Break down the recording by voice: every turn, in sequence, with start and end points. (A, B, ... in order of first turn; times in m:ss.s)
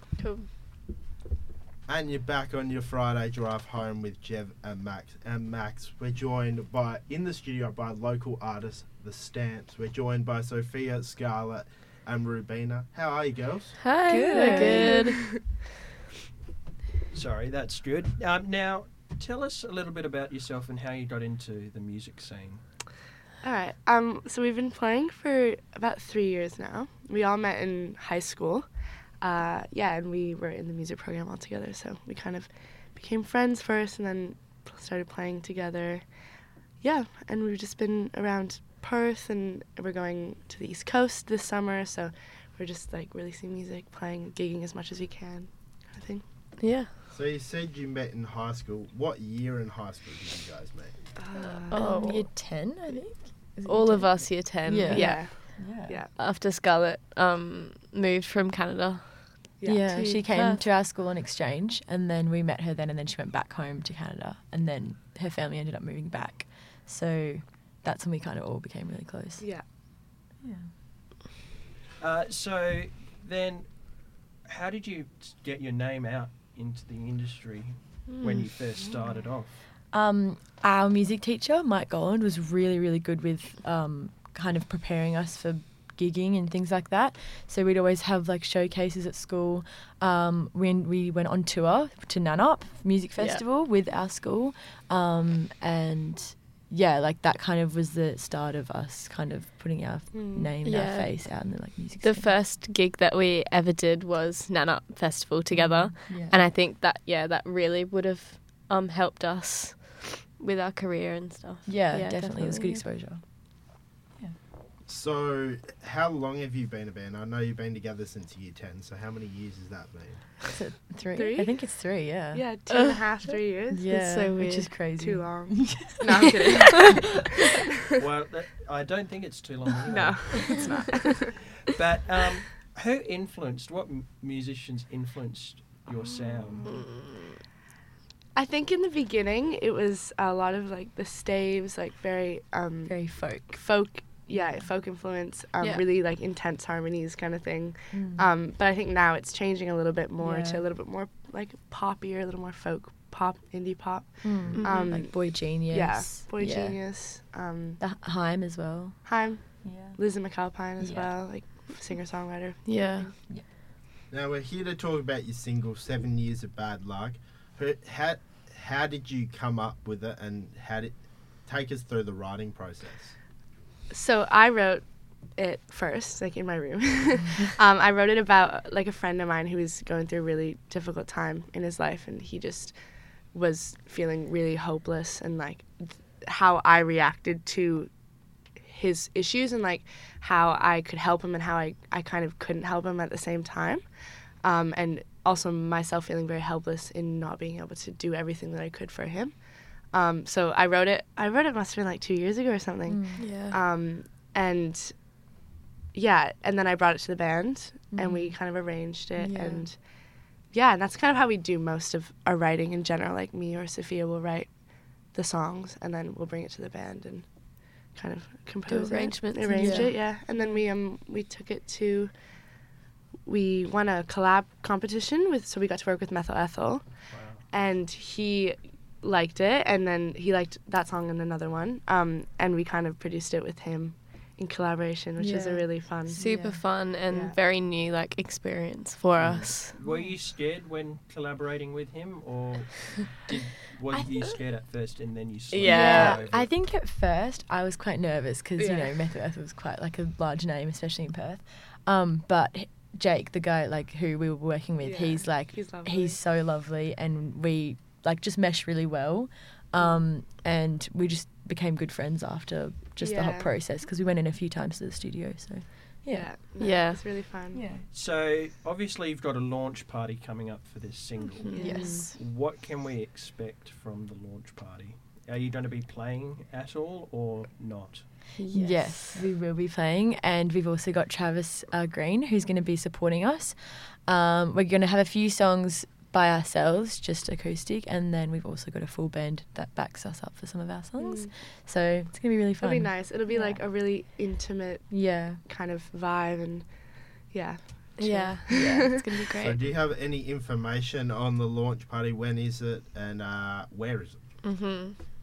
0:00.2-0:00.5 A
0:01.9-0:13.8 B
0:13.8-0:15.2 A
0:14.1-0:15.1 C
0:14.3-0:15.3 D
0:17.1-0:22.6 E
0:23.4-0:28.7 D
0:29.2-0:36.1 D
0:36.8-0:46.2 D
0:46.6-0:46.9 A
0:47.1-0:51.0 B
0:51.2-0:51.8 D
0:51.4-0:52.6 A
0:51.7-0:56.0 C
0:53.6-1:00.6 A
0:54.9-0:56.1 D
0:59.6-0:59.8 D
0:59.6-1:09.4 C
1:09.4-1:09.6 D
1:10.4-1:10.7 C
1:12.0-1:19.6 E
1:18.1-1:18.5 A
1:19.9-1:42.3 C
1:33.2-1:33.4 A
1:40.1-1:40.5 D
1:40.6-1:52.9 A
1:45.5-1:46.4 C
1:51.6-1:53.6 C
1:54.9-2:00.3 B
2:00.6-2:02.4 C
2:01.1-2:01.8 D
2:02.3-2:03.9 D
2:02.7-2:03.2 A
2:03.7-2:06.9 C
2:03.9-2:04.9 A
2:05.0-2:07.2 D
2:06.2-2:07.0 A
2:08.0-2:10.6 E
2:09.8-2:11.6 D
2:10.3-2:10.7 A
2:11.6-2:16.8 E
2:16.7-2:17.0 A
2:18.3-2:37.8 D
2:22.9-2:23.6 C
2:24.3-2:24.7 C
2:25.6-2:25.8 A
2:27.9-2:28.3 C
2:30.2-2:30.6 C
2:34.2-2:36.8 C
2:34.5-2:34.9 A
2:37.8-2:40.0 C
2:39.0-2:43.1 D
2:40.8-2:41.2 C
2:42.6-2:43.1 A
2:44.1-2:53.2 B
2:53.9-3:02.8 D
3:03.3-3:07.9 D
3:08.6-3:13.8 D
3:14.4-3:25.0 D
3:22.8-3:23.3 C
3:23.2-3:23.6 A
3:25.9-3:37.3 D
3:27.9-3:28.4 C
3:29.2-3:29.6 A
3:37.9-3:42.1 D
3:38.7-3:40.5 A
3:39.5-3:39.9 C
3:43.2-3:56.2 D
3:47.1-3:47.4 E
3:55.2-3:56.6 C
3:56.1-3:59.8 A
3:57.1-3:57.4 D
3:59.2-4:06.5 E
4:05.5-4:06.2 A
4:05.6-4:26.3 C
4:08.6-4:09.0 D
4:14.8-4:16.2 D
4:19.8-4:20.0 D
4:23.0-4:23.5 D
4:26.1-4:27.6 D
4:26.6-4:27.1 A
4:27.5-4:27.8 C
4:27.9-4:38.1 E
4:31.5-4:32.0 A
4:31.5-4:32.1 D
4:31.6-4:32.1 C
4:38.4-4:39.2 A
4:38.5-4:53.6 C
4:51.0-4:51.3 D
4:52.6-4:56.8 D
4:54.9-4:55.4 C
4:57.3-4:59.3 D
4:58.0-4:59.6 A
4:58.5-4:58.9 C
4:59.4-5:04.2 B
5:04.4-5:05.0 A